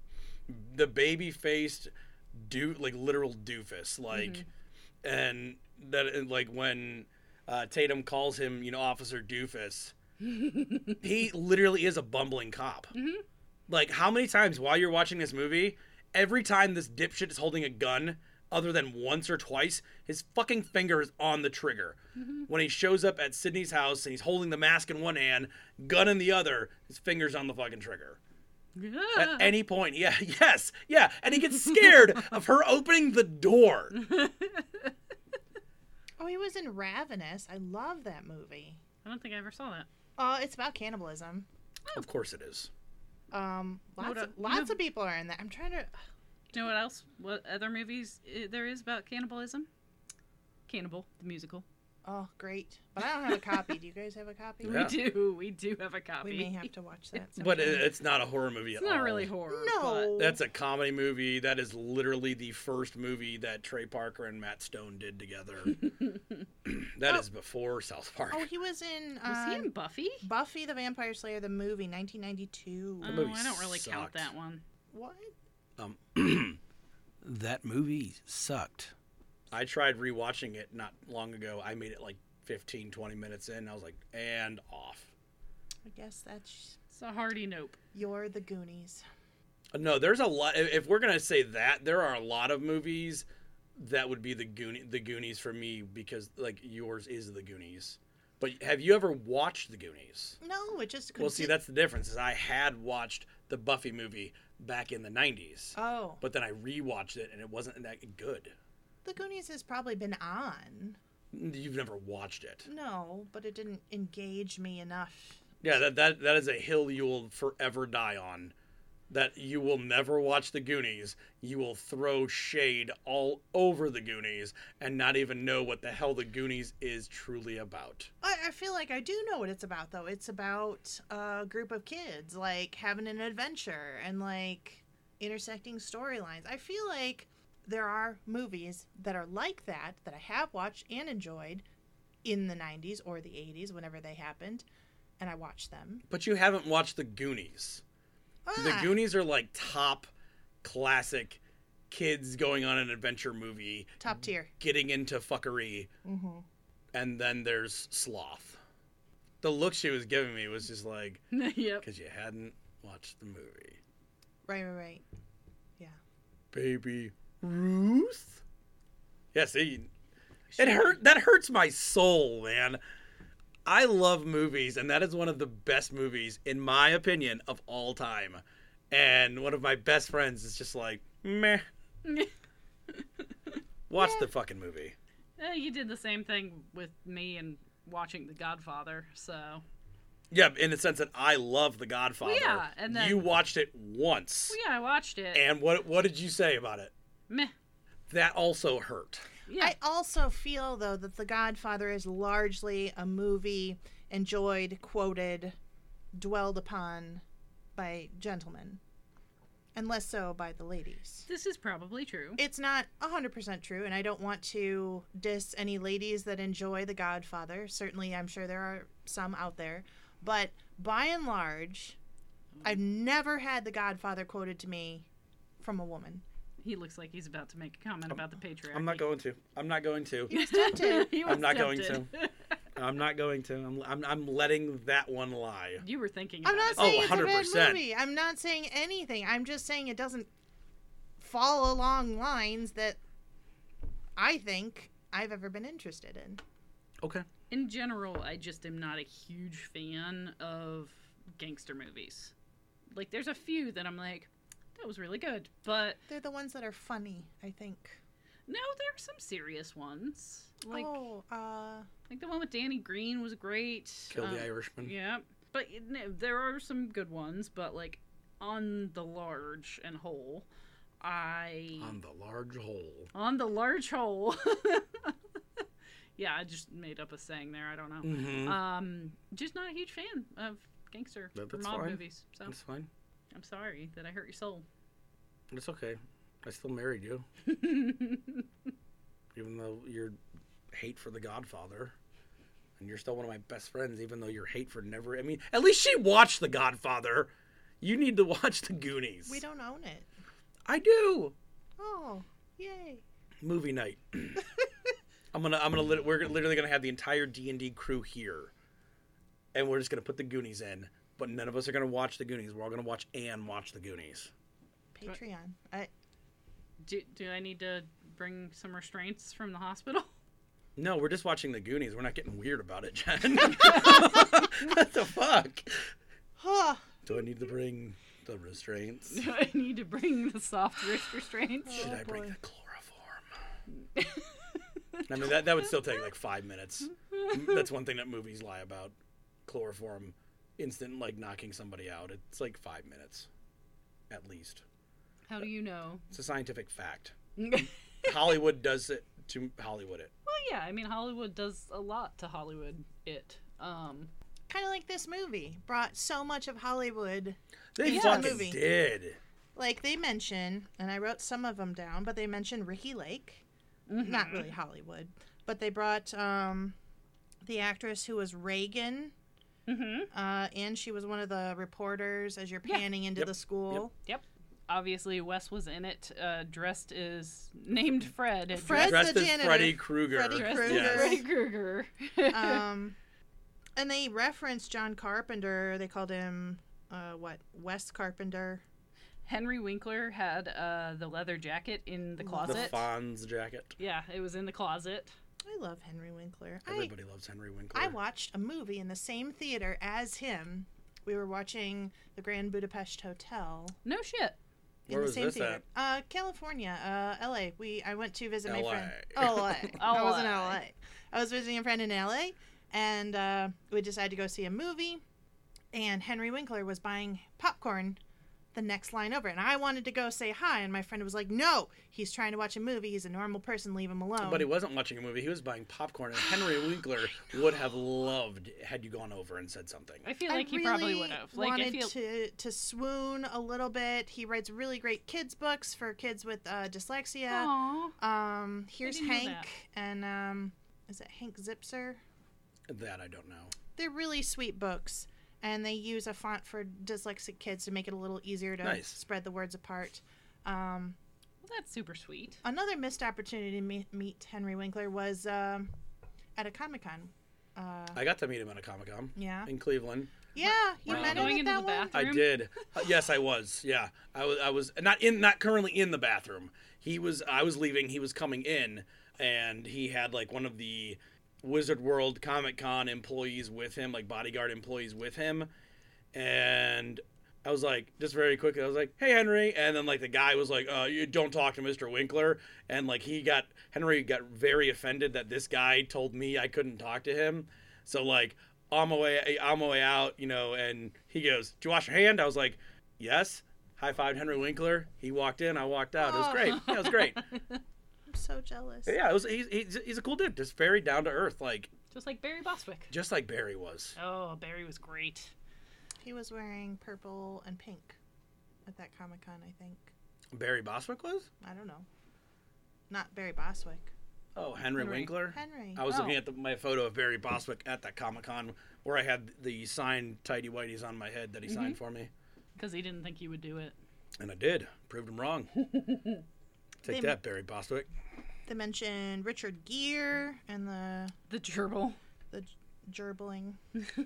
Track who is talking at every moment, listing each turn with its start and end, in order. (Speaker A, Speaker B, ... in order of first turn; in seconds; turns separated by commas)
Speaker A: 0.5-4.4, Speaker B: 4.1-4.5, Speaker A: 5.0-9.9, Speaker B: 10.2-11.0, Speaker A: 11.0-12.9, Speaker B: 12.9-13.2, Speaker A: 13.7-28.2, Speaker B: 22.2-22.4, Speaker B: 28.8-29.5, Speaker A: 29.1-34.0, Speaker B: 33.9-34.9, Speaker C: 36.2-38.8, Speaker B: 39.0-39.9, Speaker C: 40.2-41.5, Speaker A: 41.9-42.7, Speaker C: 43.3-45.9, Speaker B: 44.0-44.8, Speaker B: 46.5-49.7, Speaker B: 50.7-51.6, Speaker C: 52.0-54.9, Speaker A: 54.6-55.0, Speaker B: 54.6-56.7, Speaker C: 56.2-57.9, Speaker A: 57.4-59.3, Speaker B: 58.8-60.1, Speaker C: 59.5-60.4, Speaker A: 60.2-65.8, Speaker B: 65.8-66.2, Speaker A: 66.6-68.5, Speaker C: 68.3-69.7, Speaker B: 69.2-70.2, Speaker C: 70.2-73.2, Speaker B: 73.0-74.6, Speaker A: 73.0-74.3, Speaker C: 74.9-75.3, Speaker A: 75.8-76.6, Speaker A: 77.2-78.9, Speaker A: 79.5-85.1, Speaker C: 85.8-86.8, Speaker B: 86.9-87.8, Speaker C: 87.9-89.0, Speaker A: 89.7-100.4, Speaker C: 100.4-101.5, Speaker A: 101.2-108.5, Speaker C: 105.7-106.2, Speaker C: 109.0-111.0, Speaker A: 111.3-112.7, Speaker C: 112.7-115.4, Speaker A: 115.6-118.5, Speaker A: 119.1-128.1, Speaker C: 128.2-141.6, Speaker C: 142.2-144.6, Speaker C: 145.2-146.0, Speaker A: 146.1-147.8, Speaker C: 148.4-149.0, Speaker A: 148.6-150.1, Speaker A: 150.6-153.9, Speaker C: 154.0-154.5, Speaker A: 154.6-155.9, Speaker C: 156.0-156.4, Speaker A: 156.9-158.6, Speaker A: 159.4-161.2, Speaker B: 161.3-161.8, Speaker A: 161.8-163.8, Speaker C: 164.4-165.0, Speaker A: 166.5-168.4, Speaker A: 169.3-169.9, Speaker B: 170.6-170.8, Speaker A: 170.6-172.8, Speaker A: 173.6-181.6, Speaker B: 182.0-182.3, Speaker B: 182.9-183.6, Speaker A: 183.9-184.9, Speaker C: 183.9-184.3, Speaker B: 185.4-189.6, Speaker A: 190.3-194.6, Speaker B: 192.2-193.2, Speaker B: 194.5-195.4, Speaker A: 195.3-196.9, Speaker A: 198.1-199.2, Speaker B: 199.5-199.7, Speaker C: 199.6-205.6, Speaker C: 206.1-207.2, Speaker C: 207.8-208.8, Speaker C: 209.7-211.3, Speaker B: 211.3-212.4, Speaker C: 212.4-222.0, Speaker C: 222.6-225.1, Speaker C: 225.6-226.2, Speaker B: 226.6-229.0, Speaker A: 228.1-230.3, Speaker C: 230.3-231.2, Speaker B: 230.3-232.5, Speaker A: 231.2-232.1, Speaker A: 232.8-235.8, Speaker B: 235.8-237.4, Speaker C: 236.4-240.3, Speaker A: 236.8-237.8, Speaker C: 241.2-243.0, Speaker C: 244.2-246.4, Speaker A: 247.0-247.2, Speaker B: 247.5-252.3, Speaker B: 252.9-256.0, Speaker C: 256.1-258.0, Speaker B: 258.5-261.0, Speaker C: 260.7-261.9, Speaker B: 262.1-270.4, Speaker A: 264.1-264.9, Speaker B: 271.0-271.9, Speaker A: 271.8-273.1, Speaker B: 273.1-275.6, Speaker B: 276.2-282.6, Speaker A: 278.0-278.6, Speaker A: 281.3-282.9, Speaker B: 283.3-284.6, Speaker A: 285.5-287.2, Speaker B: 287.4-288.4, Speaker A: 289.3-290.2, Speaker A: 290.7-291.9, Speaker A: 292.8-299.4, Speaker C: 299.3-300.1, Speaker A: 300.7-301.3, Speaker C: 301.8-303.0, Speaker A: 303.4-304.4, Speaker A: 305.3-308.5, Speaker A: 309.5-314.3, Speaker C: 314.9-315.9, Speaker B: 316.8-320.1, Speaker A: 320.8-325.9, Speaker B: 323.7-324.0, Speaker C: 326.4-326.9, Speaker A: 327.0-329.2, Speaker B: 329.1-331.9, Speaker C: 331.6-332.4, Speaker A: 331.8-333.2, Speaker B: 333.9-335.1, Speaker A: 335.1-338.9, Speaker B: 337.1-337.6, Speaker A: 339.4-343.3, Speaker A: 344.1-344.6, Speaker B: 345.3-346.0, Speaker A: 346.1-347.1, Speaker B: 347.4-348.1, Speaker A: 348.0-350.1, Speaker B: 350.2-354.1, Speaker C: 354.5-358.6, Speaker A: 357.7-359.2, Speaker B: 357.8-358.4, Speaker C: 359.5-363.4, Speaker B: 363.9-364.5, Speaker C: 364.0-366.8, Speaker C: 367.4-369.1, Speaker B: 369.7-370.1, Speaker C: 370.1-373.9, Speaker A: 373.1-373.9, Speaker B: 374.0-379.1, Speaker C: 378.5-381.3, Speaker A: 378.7-381.2, Speaker B: 380.3-382.6, Speaker C: 382.3-382.9, Speaker C: 383.8-388.6, Speaker B: 389.2-392.8, Speaker C: 392.2-392.8, Speaker A: 392.4-393.7, Speaker B: 393.8-395.1, Speaker C: 395.4-396.9, Speaker A: 396.7-398.0, Speaker C: 397.7-403.8, Speaker B: 403.8-404.4, Speaker C: 404.9-415.0, Speaker A: 404.9-405.6, Speaker A: 408.4-409.7, Speaker B: 409.2-410.6, Speaker C: 415.7-418.0, Speaker C: 418.5-424.5, Speaker A: 424.2-430.1, Speaker B: 430.0-431.9, Speaker C: 430.3-442.0, Speaker B: 437.3-437.9, Speaker B: 438.8-439.5, Speaker A: 442.7-443.5, Speaker C: 443.8-451.0, Speaker A: 448.6-449.0, Speaker B: 451.4-452.4, Speaker C: 452.4-455.7, Speaker C: 456.4-458.0, Speaker A: 457.9-460.1, Speaker C: 459.1-459.5, Speaker C: 460.3-462.0, Speaker B: 460.4-462.4, Speaker A: 460.9-461.4, Speaker A: 461.9-475.5, Speaker A: 476.1-497.2, Speaker C: 496.0-496.9, Speaker B: 496.8-497.6, Speaker C: 498.1-498.9, Speaker A: 498.9-501.7, Speaker B: 501.9-502.9, Speaker A: 502.9-503.9, Speaker B: 504.0-505.3, Speaker C: 506.0-508.0, Speaker C: 508.6-509.9, Speaker A: 510.3-511.3, Speaker C: 511.4-511.9, Speaker C: 512.9-513.9, Speaker A: 514.3-522.1, Speaker B: 514.8-515.1, Speaker C: 514.8-515.8, Speaker B: 515.9-516.2, Speaker B: 521.5-521.8, Speaker B: 522.5-523.7, Speaker A: 524.2-525.5, Speaker B: 525.6-526.2, Speaker A: 526.8-527.9, Speaker C: 526.9-527.2, Speaker C: 528.5-531.1, Speaker B: 531.3-532.0, Speaker C: 532.3-533.6